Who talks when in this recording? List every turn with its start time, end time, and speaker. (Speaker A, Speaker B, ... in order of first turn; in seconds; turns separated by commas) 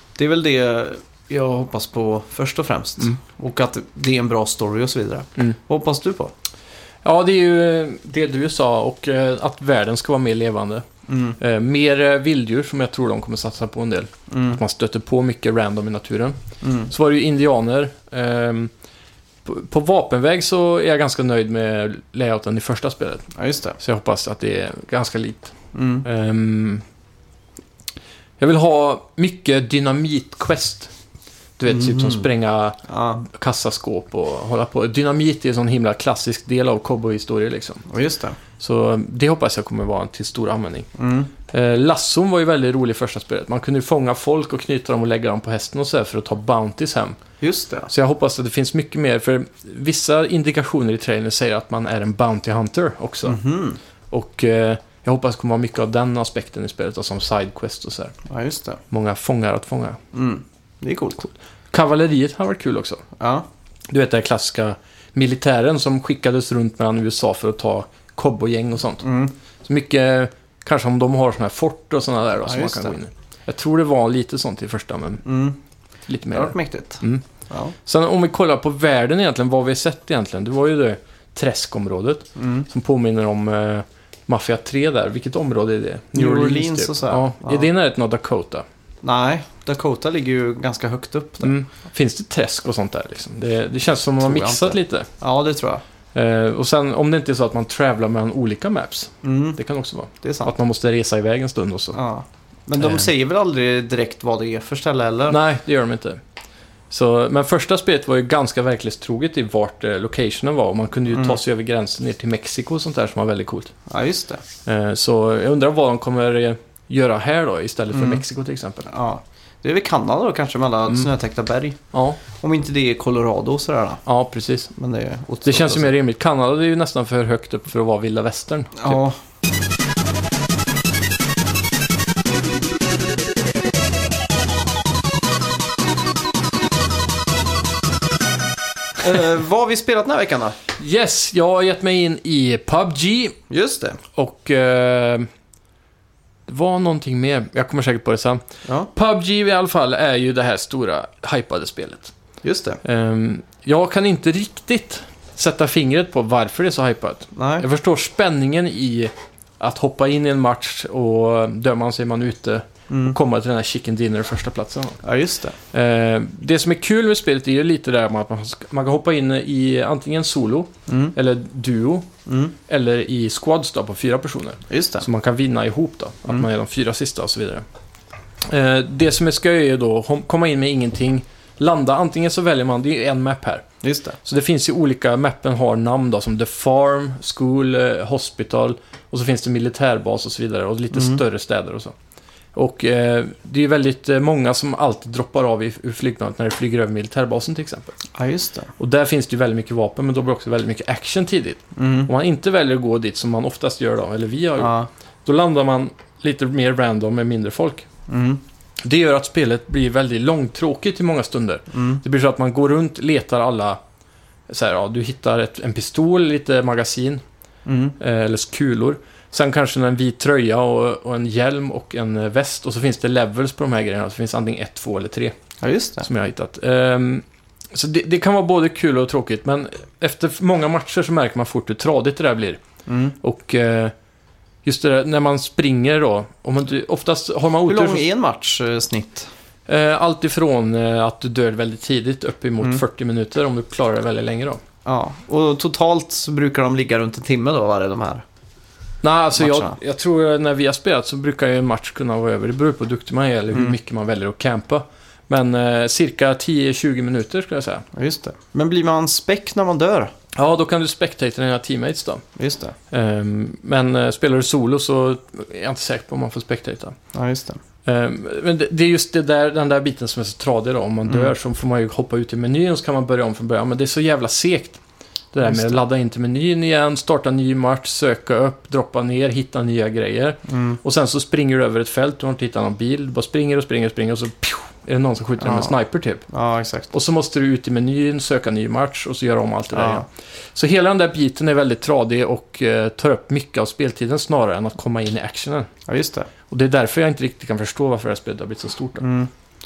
Speaker A: 0.2-6.3, Speaker B: 7.0-10.9, Speaker A: 11.1-11.4, Speaker B: 11.4-16.4, Speaker A: 14.3-14.6, Speaker A: 16.6-16.9, Speaker B: 16.9-18.7, Speaker B: 19.4-23.3, Speaker A: 23.4-23.8, Speaker B: 23.8-26.8, Speaker A: 25.7-26.1, Speaker B: 28.4-30.9, Speaker B: 31.6-37.9, Speaker A: 31.7-32.3, Speaker A: 32.9-33.3, Speaker A: 37.9-38.4, Speaker B: 38.6-40.9, Speaker A: 41.0-41.3, Speaker B: 41.5-47.2, Speaker A: 47.4-47.9, Speaker B: 47.9-53.4, Speaker A: 53.2-53.8, Speaker B: 54.1-58.1, Speaker A: 58.3-58.8, Speaker B: 58.9-60.0, Speaker A: 60.1-61.3, Speaker B: 61.7-63.0, Speaker A: 63.2-63.5, Speaker B: 63.9-69.1, Speaker A: 69.0-69.3, Speaker B: 69.6-75.2, Speaker A: 72.4-73.0, Speaker A: 75.2-75.6, Speaker B: 76.1-77.2, Speaker A: 76.3-77.8, Speaker B: 77.8-88.7, Speaker A: 82.4-82.7, Speaker A: 86.1-87.7, Speaker A: 89.0-91.5, Speaker B: 91.4-95.1, Speaker A: 94.2-95.8, Speaker B: 96.1-102.0, Speaker A: 99.2-99.6, Speaker A: 100.2-100.5, Speaker A: 101.9-105.4, Speaker B: 102.8-103.1, Speaker B: 105.3-106.2, Speaker B: 106.9-113.7, Speaker A: 111.1-111.4, Speaker A: 113.9-114.4, Speaker B: 114.7-118.9, Speaker A: 117.9-118.2, Speaker A: 118.9-121.8, Speaker B: 121.9-122.2, Speaker A: 122.4-124.0, Speaker B: 124.1-124.7, Speaker A: 124.8-125.9, Speaker B: 125.4-129.0, Speaker A: 128.8-129.2, Speaker A: 139.0-140.6, Speaker B: 140.8-143.4, Speaker A: 143.5-144.0, Speaker B: 144.2-145.3, Speaker B: 146.5-152.1, Speaker A: 148.7-148.9, Speaker A: 152.4-152.8, Speaker B: 152.8-165.0, Speaker A: 157.3-157.7, Speaker A: 162.9-163.2, Speaker A: 165.0-165.6, Speaker B: 165.7-172.1, Speaker A: 170.9-171.2, Speaker A: 172.3-172.6, Speaker B: 172.7-177.7, Speaker A: 174.7-175.1, Speaker B: 178.4-183.7, Speaker A: 183.8-184.2, Speaker B: 184.2-191.9, Speaker A: 190.9-191.2, Speaker B: 192.5-197.9, Speaker A: 198.2-198.7, Speaker B: 198.8-207.9, Speaker A: 201.8-202.1, Speaker A: 204.6-204.9, Speaker A: 208.1-208.4, Speaker B: 208.8-213.8, Speaker A: 211.7-212.0, Speaker B: 214.5-217.2, Speaker A: 217.7-218.0, Speaker B: 218.0-225.4, Speaker A: 225.6-226.1, Speaker B: 226.0-232.6, Speaker A: 232.9-233.2, Speaker B: 233.2-233.9, Speaker B: 234.6-238.0, Speaker A: 237.7-239.3, Speaker B: 239.7-244.6, Speaker A: 244.8-248.2, Speaker B: 249.0-257.9, Speaker A: 249.4-249.8, Speaker A: 257.9-260.1, Speaker B: 260.3-262.2, Speaker A: 262.4-262.8, Speaker B: 262.9-267.0, Speaker A: 267.1-267.6, Speaker B: 267.9-274.8, Speaker A: 271.1-271.3, Speaker B: 275.3-286.2, Speaker A: 275.4-275.8, Speaker A: 280.5-280.8, Speaker A: 285.4-285.7, Speaker A: 286.3-286.9, Speaker B: 286.9-295.7, Speaker A: 289.7-290.1, Speaker A: 295.9-296.3, Speaker B: 296.5-299.1, Speaker A: 299.0-299.3